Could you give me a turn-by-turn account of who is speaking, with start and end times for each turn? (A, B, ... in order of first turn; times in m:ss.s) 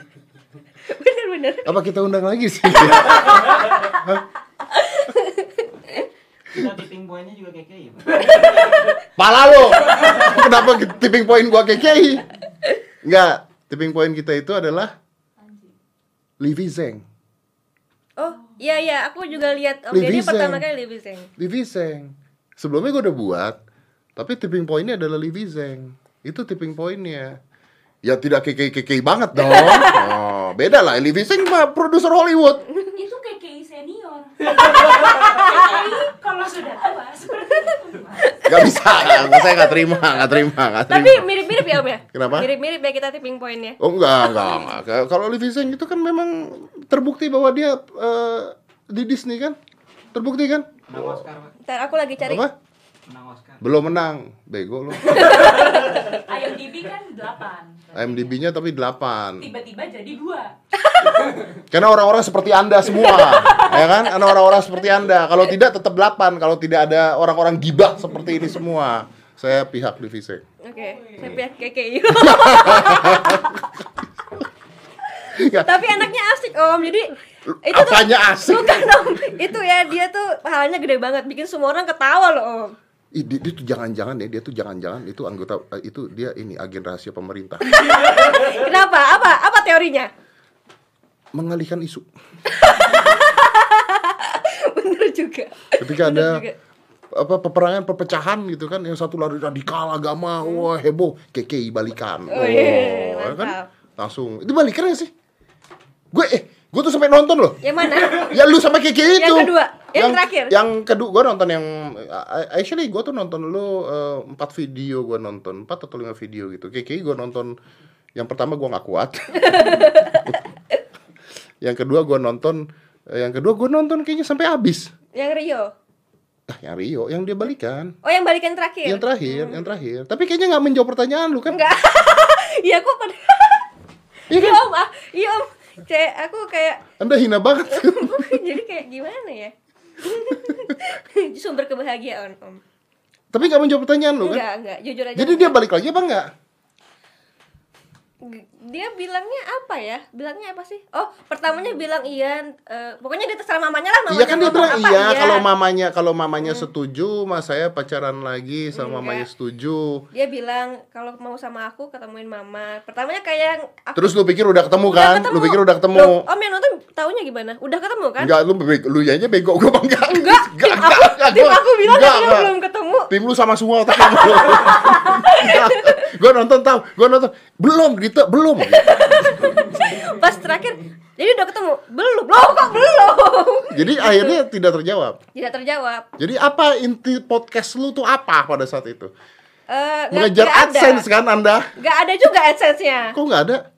0:00.8-0:01.7 A
0:01.6-0:04.2 B
0:04.7-0:06.0 A
0:06.5-0:08.9 C
0:09.2-0:12.3 B
0:09.8-0:10.1 A
0:13.0-0:14.9 B
0:15.4-0:15.7 D
0:16.4-0:17.0 B
0:18.2-0:21.3 A
0:19.9-0:20.6 B
0:21.4-0:23.6 B
0:24.2-0:27.4 B
0:28.0-0:32.7 B
0:29.4-0:30.1 A
0:32.9-0:38.4 D
0:35.2-0:36.0 A
0:38.2-0:40.3 A
0:38.5-0:42.5 B
0:40.9-0:44.7 A
0:43.8-0:49.6 B
0:50.1-0:51.2 B
0:50.9-0:51.6 C
0:51.6-0:52.5 A
0:52.2-0:52.5 B
0:53.1-0:53.6 C
0:53.6-0:55.4 B
0:55.1-0:56.2 A
0:56.0-0:58.4 D
0:57.9-0:59.5 B
0:59.4-1:00.5 D
1:00.8-1:01.4 A
1:01.7-1:10.4 B
1:03.0-1:04.4 A
1:10.6-1:13.6 A
1:10.7-1:11.3 D
1:12.2-1:14.1 B
1:15.3-1:16.0 B
1:15.6-1:22.8 A
1:17.5-1:19.1 B
1:23.1-1:27.7 B
1:27.7-1:30.1 A
1:31.4-1:32.1 B
1:32.5-1:36.6 A
1:35.8-1:36.4 B
1:37.1-1:45.1 B
1:40.4-1:40.7 A
1:42.3-1:43.7 A
1:46.1-1:57.5 B
1:47.6-1:48.4 A
1:49.0-1:50.6 A
1:58.2-2:00.4 B
1:59.4-2:00.4 A
2:01.6-2:04.9 B
2:05.1-2:05.7 A
2:06.5-2:08.0 B
2:08.0-2:09.6 A
2:08.9-2:11.6 B
2:11.5-2:13.7 A
2:14.3-2:14.6 B
2:14.3-2:16.8 A
2:17.0-2:18.4 B
2:17.7-2:22.6 A
2:23.3-2:24.4 B
2:24.2-2:25.6 A
2:25.2-2:26.3 B
2:28.2-2:35.5 A
2:34.1-2:40.0 B
2:36.4-2:36.7 A
2:38.7-2:39.3 A
2:40.1-2:44.1 A
2:44.0-2:46.2 B
2:44.8-2:48.3 A
2:48.2-2:52.5 B
2:50.1-2:53.1 A
2:53.1-2:59.5 B
2:54.0-2:56.0 A
2:58.6-3:04.4 A
3:03.7-3:05.2 B
3:05.4-3:06.1 A
3:06.2-3:09.1 B
3:09.7-3:11.1 A
3:10.1-3:11.7 B
3:11.8-3:13.2 A
3:13.1-3:13.6 B